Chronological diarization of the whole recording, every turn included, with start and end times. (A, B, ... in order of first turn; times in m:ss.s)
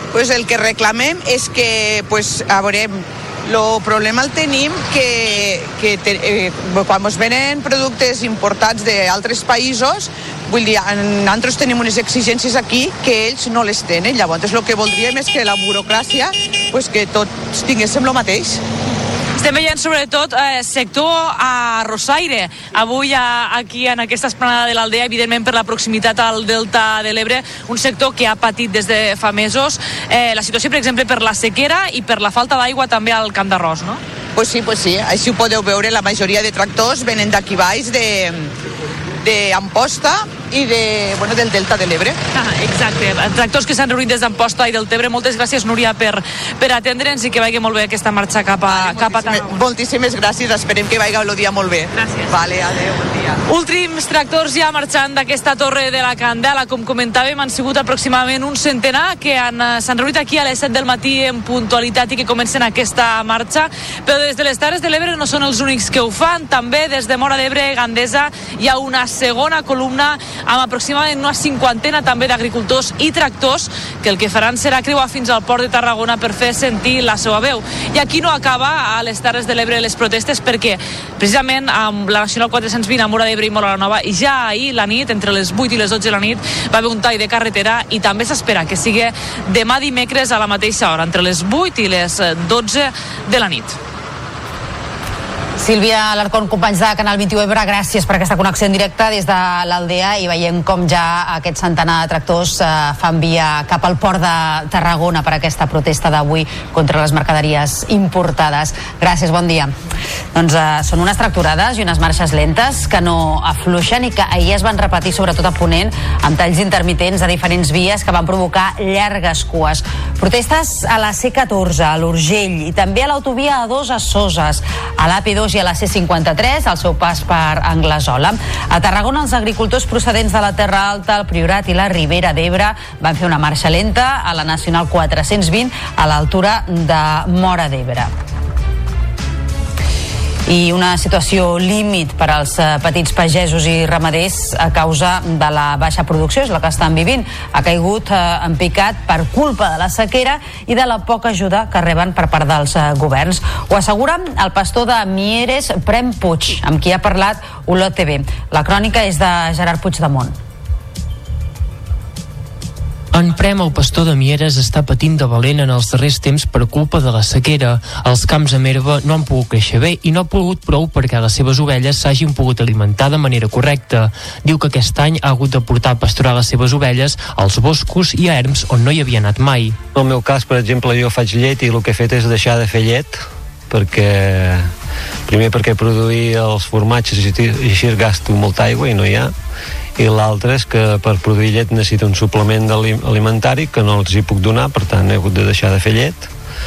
0:00.1-0:18.6 A
0:19.4-0:34.0 B
0:34.4-0:38.5 A
0:39.2-0:42.2 A
0:42.4-0:49.6 B
0:48.6-0:53.4 A
0:52.0-0:52.3 B
0:53.5-1:33.8 B
1:35.6-1:49.7 C
1:50.3-2:18.1 C
2:20.5-2:40.3 C
2:43.1-2:59.8 D
2:59.9-3:04.7 E
3:05.3-3:09.3 E
3:10.0-3:16.3 E